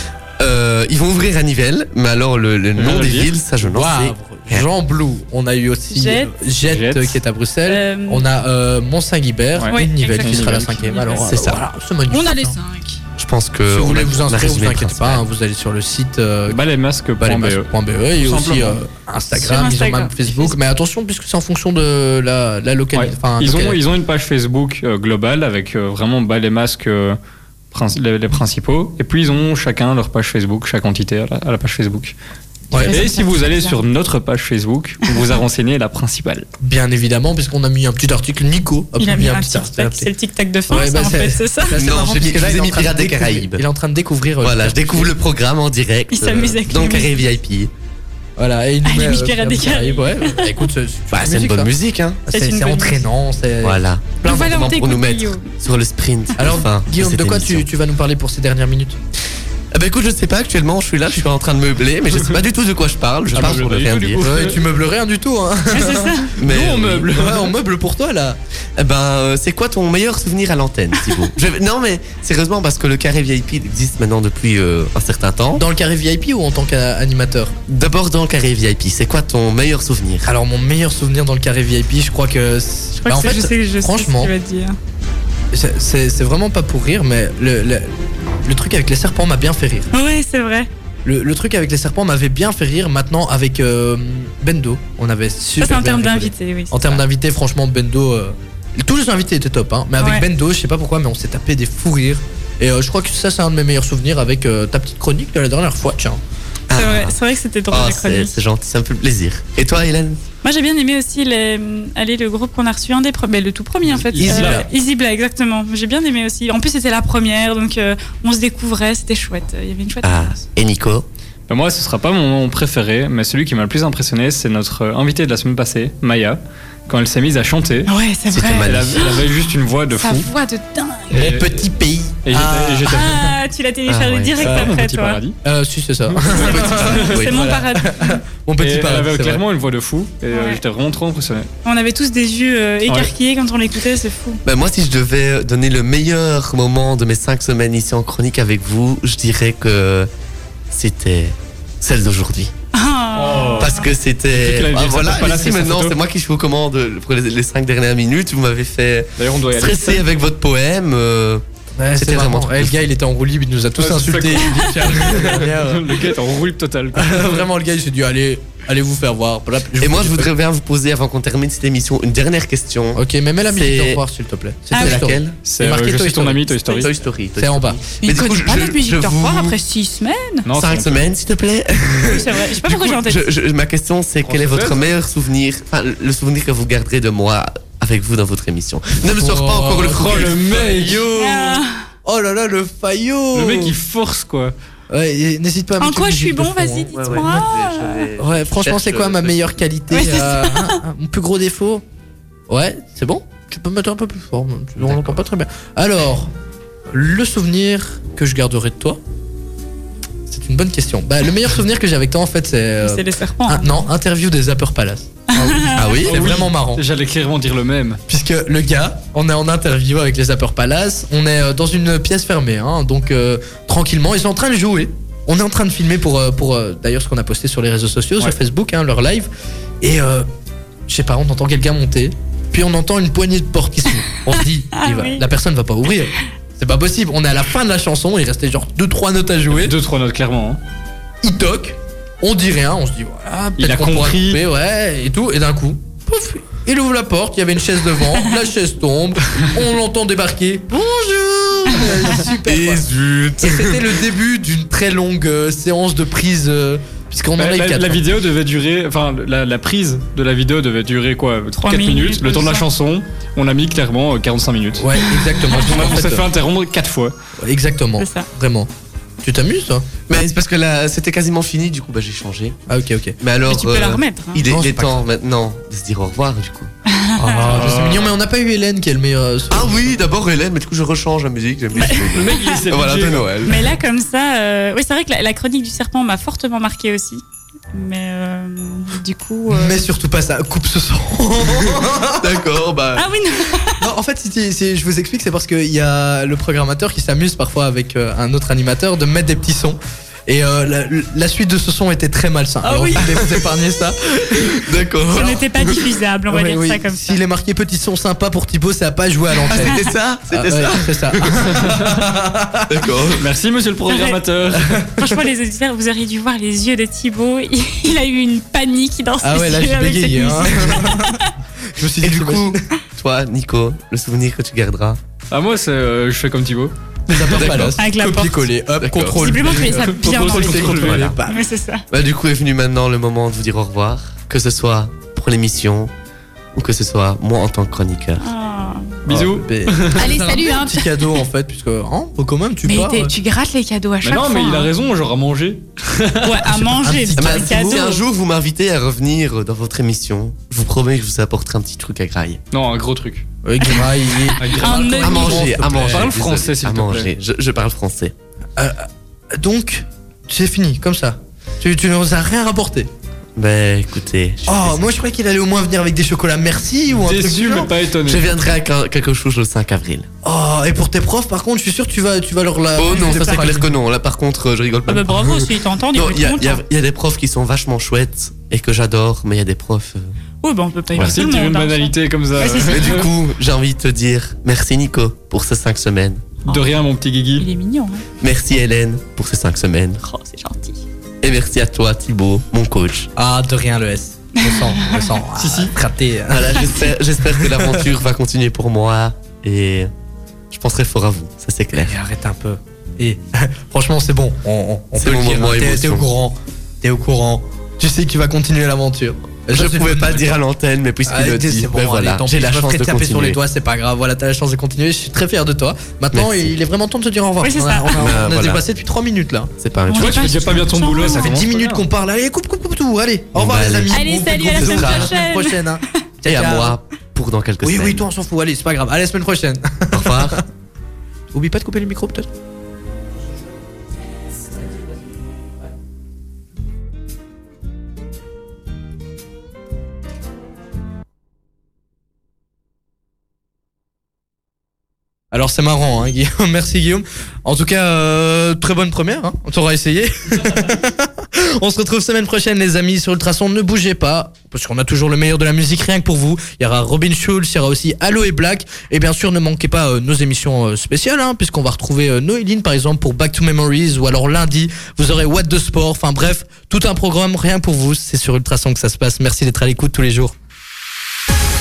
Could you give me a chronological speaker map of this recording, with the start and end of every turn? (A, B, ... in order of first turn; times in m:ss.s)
0:00.4-0:04.7 A
0:02.8-0:03.3 B
0:03.6-0:12.6 C
0:05.9-0:06.3 D
0:06.7-0:07.2 B
0:07.6-0:08.2 D
0:09.6-0:10.7 B
0:09.7-0:11.3 D
0:11.2-0:11.6 A
0:12.1-0:13.0 D
0:13.2-0:15.2 A
0:13.7-0:16.6 C
0:16.5-0:17.6 B
0:17.2-0:23.8 C
0:18.2-0:18.8 B
0:19.3-0:20.6 D
0:22.9-0:27.2 B
0:27.7-0:32.1 B
0:32.7-0:33.0 C
0:32.7-0:33.8 D
0:32.8-0:36.5 B
0:36.6-0:40.1 C
0:39.0-0:41.8 D
0:40.7-0:45.1 C
0:41.7-0:43.6 A
0:44.4-0:47.7 A
0:46.1-0:47.2 D
0:48.4-0:51.7 C
0:48.8-0:50.7 D
0:51.1-0:52.2 A
0:52.2-0:54.6 C
0:52.3-0:53.0 D
0:53.6-0:57.6 A
0:54.2-0:55.5 D
0:56.4-0:59.0 C
0:59.7-1:04.5 A
1:03.3-1:04.6 B
1:04.2-1:08.4 C
1:05.7-1:06.3 D
1:06.4-1:07.1 A
1:06.4-1:07.5 B
1:08.8-1:15.6 A
1:15.6-1:17.5 C
1:17.7-1:20.3 A
1:20.2-1:24.3 C
1:23.0-1:24.8 D
1:25.5-1:29.9 C
1:29.9-1:30.7 D
1:31.0-1:46.2 C
1:35.6-1:37.0 D
1:40.0-1:40.2 D
1:46.7-1:47.1 A
1:46.7-1:48.4 D
1:47.7-1:50.2 A
1:50.4-2:00.4 D
1:54.1-1:54.6 B
1:54.1-1:54.7 C
2:00.0-2:01.0 A
2:01.5-2:07.9 B
2:07.9-2:09.4 D
2:08.3-2:09.2 A
2:08.6-2:10.3 B
2:09.9-2:11.2 D
2:11.1-2:13.3 C
2:11.1-2:11.6 B
2:12.2-2:13.3 B
2:12.8-2:15.2 D
2:13.9-2:14.6 A
2:14.4-2:14.8 C
2:14.4-2:15.3 B
2:15.4-2:19.4 C
2:16.3-2:17.5 A
2:16.3-2:18.2 D
2:18.6-2:21.5 B
2:20.3-2:20.6 D
2:21.6-2:24.4 D
2:22.8-2:23.1 B
2:24.4-2:30.1 A
2:30.7-2:32.5 A
2:32.7-2:33.9 D
2:33.1-2:33.8 B
2:33.6-2:41.4 A
2:34.3-2:36.0 B
2:39.2-2:40.0 B
2:41.8-2:46.2 C
2:42.0-2:42.7 A
2:43.8-2:47.4 B
2:46.9-2:50.3 C
2:49.8-2:54.0 A
2:52.9-2:56.8 C
2:54.7-2:55.0 D
2:54.7-2:55.4 A
2:55.4-2:56.9 B
2:56.7-2:59.5 A
2:57.4-2:57.8 C
2:58.0-3:00.5 D
3:00.4-3:01.0 B
3:00.5-3:10.9 A
3:02.1-3:03.3 D
3:04.2-3:04.9 B
3:09.2-3:13.8 C
3:09.8-3:11.0 B
3:11.1-3:11.8 D
3:13.3-3:14.5 B
3:14.9-3:17.2 C
3:15.8-3:18.1 D
3:16.9-3:19.4 A
3:18.2-3:21.8 C
3:19.9-3:20.8 D
3:22.5-3:26.3 C
3:24.8-3:25.2 A
3:26.9-3:29.0 C
3:30.3-3:36.8 C
3:32.8-3:33.6 D
3:35.3-3:35.9 D
3:35.6-3:38.0 B
3:35.8-3:36.3 A
3:38.1-3:49.3 C
3:49.8-3:50.3 C
3:50.9-3:59.7 C
3:54.7-3:55.2 D
3:59.5-4:00.6 B
4:01.2-4:12.8 C
4:03.6-4:04.4 B
4:12.4-4:14.0 A
4:13.4-4:18.0 C
4:17.4-4:24.8 B
4:21.6-4:22.6 D
4:24.8-4:26.3 C
4:25.2-4:25.7 D
4:25.5-4:27.1 B
4:27.4-4:28.7 C
4:28.0-4:28.3 D
4:29.2-4:29.9 C
4:30.1-4:32.6 A
4:32.7-4:33.2 C
4:33.2-4:36.7 A
4:33.4-4:34.4 D
4:34.4-4:35.0 C
4:36.9-4:37.7 D
4:37.2-4:40.0 C
4:37.5-4:38.1 B
4:39.5-4:43.7 A
4:41.7-4:42.7 D
4:42.1-4:43.4 B
4:43.4-4:49.8 D
4:49.5-4:52.4 C
4:52.2-4:53.1 A
4:53.0-4:53.9 D
4:53.8-5:04.8 C
5:02.6-5:03.1 D
5:03.0-5:03.4 A
5:04.3-5:05.8 A
5:05.1-5:07.2 D
5:06.3-5:12.8 C
5:09.5-5:11.6 A
5:09.5-5:09.9 D
5:11.5-5:12.1 B
5:12.7-5:13.3 A
5:13.2-5:14.8 B
5:13.9-5:14.2 D
5:14.6-5:15.1 C
5:15.0-5:21.3 D
5:19.2-5:22.6 C
5:22.0-5:25.0 A
5:25.3-5:27.7 B
5:27.1-5:31.5 C
5:27.3-5:27.8 A
5:27.8-5:28.4 D
5:28.8-5:29.2 A
5:29.1-5:31.8 D
5:29.5-5:31.1 B
5:30.7-5:31.2 A
5:31.9-5:35.9 A
5:36.5-5:38.2 A
5:38.2-5:39.0 D
5:39.0-5:40.1 B
5:39.1-5:39.4 A
5:39.1-5:43.1 C
5:39.9-5:40.9 D
5:42.6-5:44.7 D
5:44.0-5:46.6 B
5:46.2-5:48.0 D
5:46.4-5:47.8 C
5:47.2-5:52.4 A
5:52.5-5:53.2 B
5:53.4-5:56.1 C
5:54.4-5:55.0 B
5:54.6-5:55.6 D
5:55.0-5:58.1 A
5:55.7-5:57.1 B
5:58.6-6:02.9 C
6:03.4-6:04.9 A
6:04.4-6:07.7 C
6:07.0-6:08.3 B
6:08.0-6:10.1 A
6:10.2-6:13.7 C
6:12.8-6:20.2 A
6:12.8-6:13.5 D
6:14.9-6:16.6 D
6:20.4-6:23.1 D
6:21.0-6:23.1 B
6:22.5-6:26.3 A
6:26.5-6:27.5 B
6:27.4-6:28.0 D
6:28.2-6:30.0 A
6:30.0-6:30.8 D
6:31.2-6:33.1 A
6:33.2-6:37.8 C
6:34.4-6:35.1 D
6:35.4-6:35.7 B
6:36.3-6:39.9 A
6:40.5-6:41.9 A
6:41.8-6:50.3 C
6:45.0-6:46.0 A
6:49.5-6:53.4 A
6:51.0-6:59.5 C
6:56.1-6:56.5 A
6:57.4-6:58.2 D
6:57.9-6:58.6 A
6:59.6-7:00.5 A
6:59.9-7:01.4 D
6:59.9-7:01.8 B
7:00.9-7:06.8 C
7:03.3-7:05.2 A
7:03.9-7:06.0 D
7:06.2-7:08.0 A
7:07.6-7:10.4 C
7:09.9-7:10.4 A
7:11.3-7:12.3 C
7:25.3-7:50.3 C